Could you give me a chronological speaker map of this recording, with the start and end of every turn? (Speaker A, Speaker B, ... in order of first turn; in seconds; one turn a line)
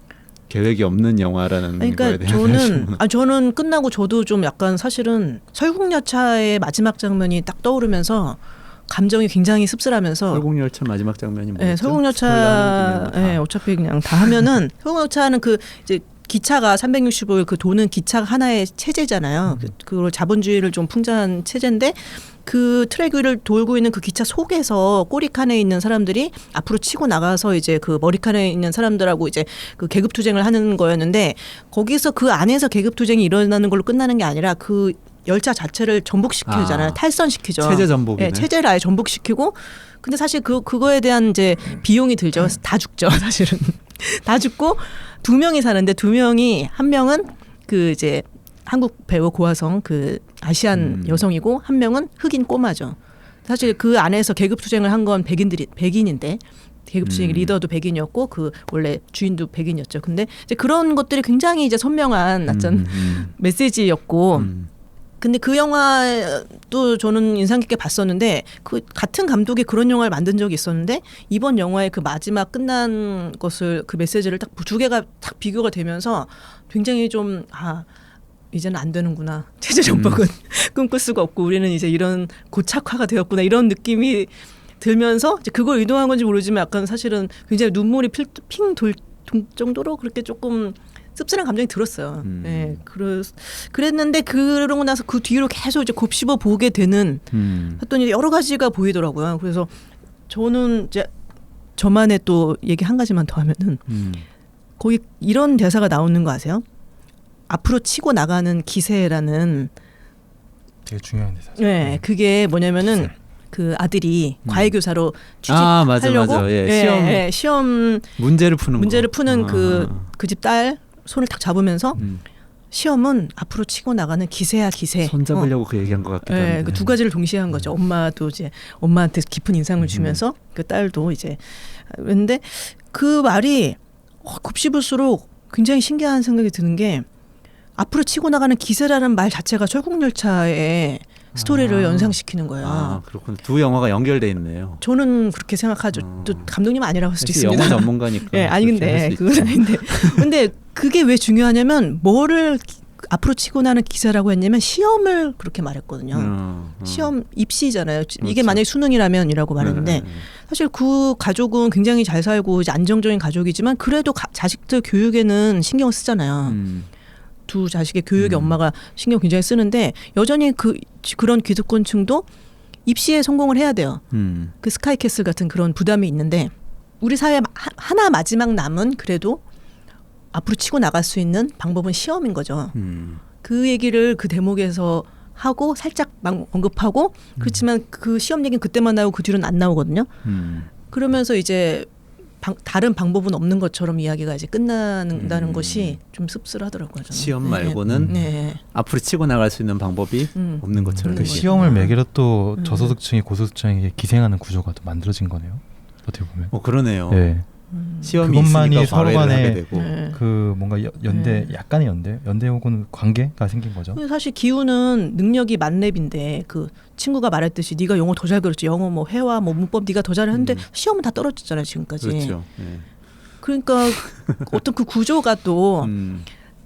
Speaker A: 0.5-3.0
Speaker B: 1.8-10.4
Speaker A: 10.3-13.5
Speaker B: 11.6-64.5
Speaker A: 14.2-14.5
Speaker A: 36.5-37.0
Speaker A: 37.6-38.5
Speaker A: 50.7-51.2
Speaker A: 57.0-57.5
Speaker A: 62.5-63.3
Speaker A: 64.3-64.7
Speaker B: 65.2-77.9
Speaker B: 78.5-99.7
Speaker A: 79.9-80.2
Speaker A: 92.2-92.8
Speaker A: 97.3-97.8
Speaker B: 100.3-101.1
Speaker B: 101.8-103.8
Speaker A: 103.9-104.2
Speaker B: 104.8-106.6
Speaker B: 107.5-109.7
Speaker C: 110.8-112.0
Speaker B: 111.6-118.2
Speaker A: 114.4-114.7
Speaker A: 115.5-117.3
Speaker A: 118.2-120.1
Speaker B: 118.7-122.0
Speaker A: 122.0-122.2
Speaker B: 122.7-125.5
Speaker A: 125.0-127.0
Speaker B: 126.2-137.1
Speaker A: 129.8-130.2
Speaker B: 137.8-143.0
Speaker A: 141.3-144.8
Speaker B: 144.8-166.6
Speaker A: 145.9-146.5
Speaker A: 147.2-150.3
Speaker A: 156.1-157.1
Speaker A: 158.2-158.6
Speaker A: 159.6-160.3
Speaker A: 166.5-166.9
Speaker B: 167.5-172.2
Speaker A: 168.2-168.6
Speaker B: 172.8-174.0
Speaker A: 174.1-174.5
Speaker B: 174.6-179.4
Speaker B: 180.3-182.7
Speaker A: 182.7-183.2
Speaker B: 183.4-190.1
Speaker A: 187.4-187.6
Speaker A: 190.2-190.7
Speaker B: 190.9-191.9
Speaker B: 192.4-198.6
Speaker A: 195.1-196.0
Speaker A: 197.1-201.6
Speaker C: 197.9-198.2
Speaker B: 200.3-202.0
Speaker C: 200.8-206.5
Speaker B: 202.6-203.0
Speaker A: 206.5-207.3
Speaker C: 207.1-207.5
Speaker B: 207.7-208.2
Speaker A: 208.0-209.9
Speaker C: 208.1-214.0
Speaker B: 209.7-210.2
Speaker B: 211.1-211.5
Speaker B: 213.9-222.3
Speaker A: 220.3-220.7
Speaker A: 222.0-222.9
Speaker B: 223.4-225.9
Speaker A: 225.8-226.3